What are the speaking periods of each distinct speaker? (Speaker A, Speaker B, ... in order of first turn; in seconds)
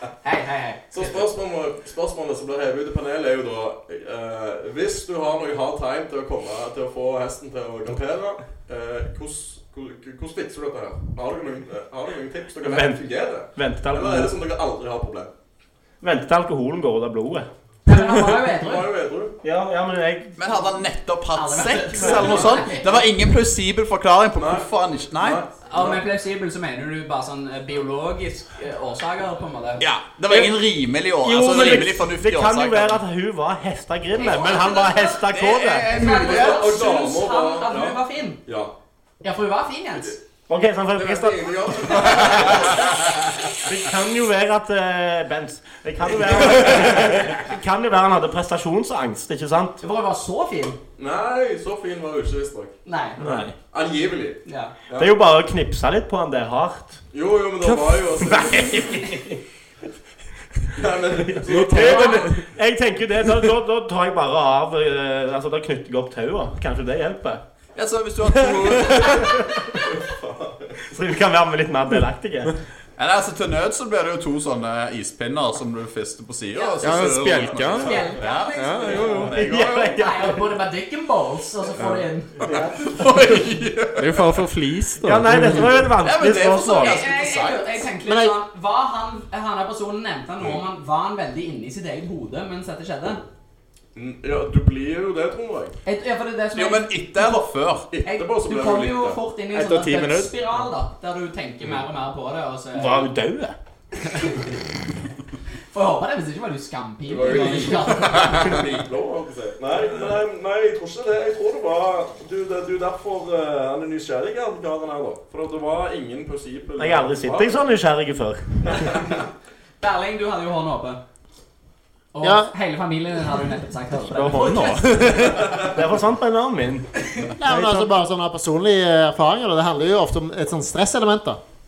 Speaker A: 0.2-1.2, 17.9-18.9, 21.3-23.0, 25.6-29.8, 34.2-35.2, 35.9-38.4, 39.2-40.2, 49.8-50.8, 52.9-53.2, 54.5-54.7, 61.7-62.2, 76.5-83.1, 86.5-93.2, 95.8-97.4, 98.0-103.1, 104.0-104.6, 105.7-108.6, 119.8-121.0, 122.1-125.4
Speaker B: 0.9-15.3, 18.5-19.4, 24.4-26.0, 36.1-38.7, 40.9-42.8, 51.0-52.7, 53.3-55.1, 57.1-58.8, 60.7-62.2, 69.8-70.7, 93.9-95.7, 97.9-99.2, 107.0-117.5
Speaker C: 12.6-14.3, 16.0-17.5, 19.4-20.3, 30.3-30.6, 31.2-35.9, 40.5-42.8, 43.6-49.8, 53.2-53.5, 55.0-57.0, 58.1-59.4, 61.3-67.4, 69.0-69.7, 70.9-72.5, 79.3-80.5, 85.0-87.0, 102.7-103.5, 116.8-118.9, 124.2-126.9
Speaker D: 20.4-25.4, 29.8-33.0, 35.2-36.7, 67.7-69.4, 73.0-79.5, 82.8-84.3, 86.0-87.9, 96.5-97.9
Speaker E: 61.5-62.4, 76.8-79.5, 81.8-82.0, 84.0-85.8, 99.5-100.3, 124.1-125.5, 127.4-127.9
Speaker F: 88.0-88.3, 122.2-122.5, 127.4-131.4